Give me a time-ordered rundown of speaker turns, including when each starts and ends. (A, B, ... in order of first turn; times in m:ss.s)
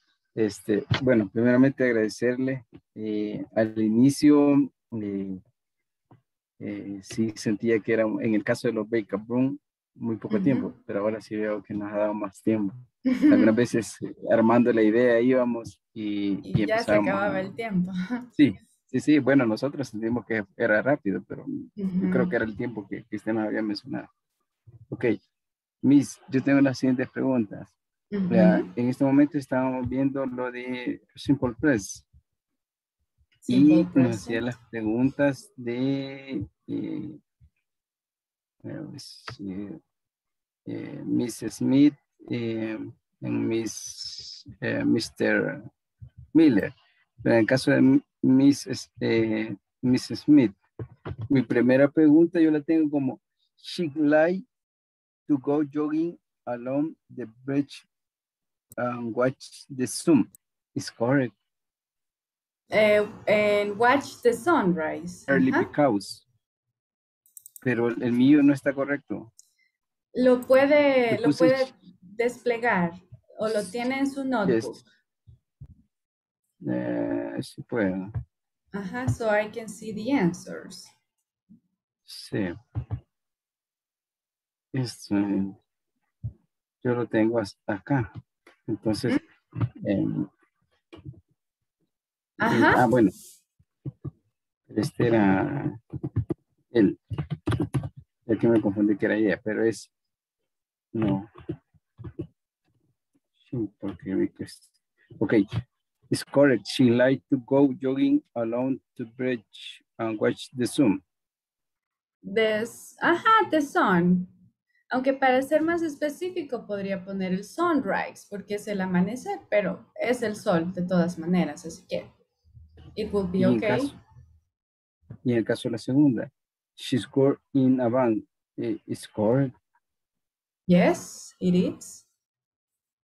0:00.4-0:05.4 A
0:06.6-0:17.6 A
0:10.3-0:10.7 B
0:13.1-0:13.5 B
0:16.4-0:18.3 B
0:18.4-0:24.1 A
0:21.8-0:22.3 B
0:24.9-0:25.2 A
0:25.8-0:27.7 A
0:28.1-0:28.7 B
0:28.3-0:32.0 A
0:33.5-0:34.5 B
0:33.5-0:37.2 A
0:38.6-0:39.8 A
0:40.7-0:45.7 A
0:46.3-0:50.6 A
0:51.3-0:54.4 A
0:55.3-0:57.9 A
0:58.8-1:01.3 A
1:02.7-1:05.7 B
1:05.3-1:06.2 A
1:07.6-1:09.3 A
1:10.2-1:14.8 B
1:11.1-1:11.7 A
1:14.5-1:14.8 A
1:16.6-1:18.1 A
1:18.7-1:20.9 B
1:22.1-1:22.6 A
1:24.7-1:25.6 A
1:26.8-1:28.1 A
1:28.7-1:29.2 A
1:29.8-1:30.3 A
1:32.4-1:32.9 B
1:32.5-1:33.1 A
1:34.7-1:35.8 A
1:36.7-1:37.0 A
1:38.3-1:39.9 A
1:40.9-1:41.3 A
1:43.4-1:44.7 A
1:45.2-1:45.4 A
1:46.1-1:51.0 A
1:52.2-1:54.3 B
1:54.9-2:02.1 B
2:03.0-2:03.9 B
2:03.4-2:04.0 A
2:05.2-2:09.5 A
2:10.7-2:12.0 B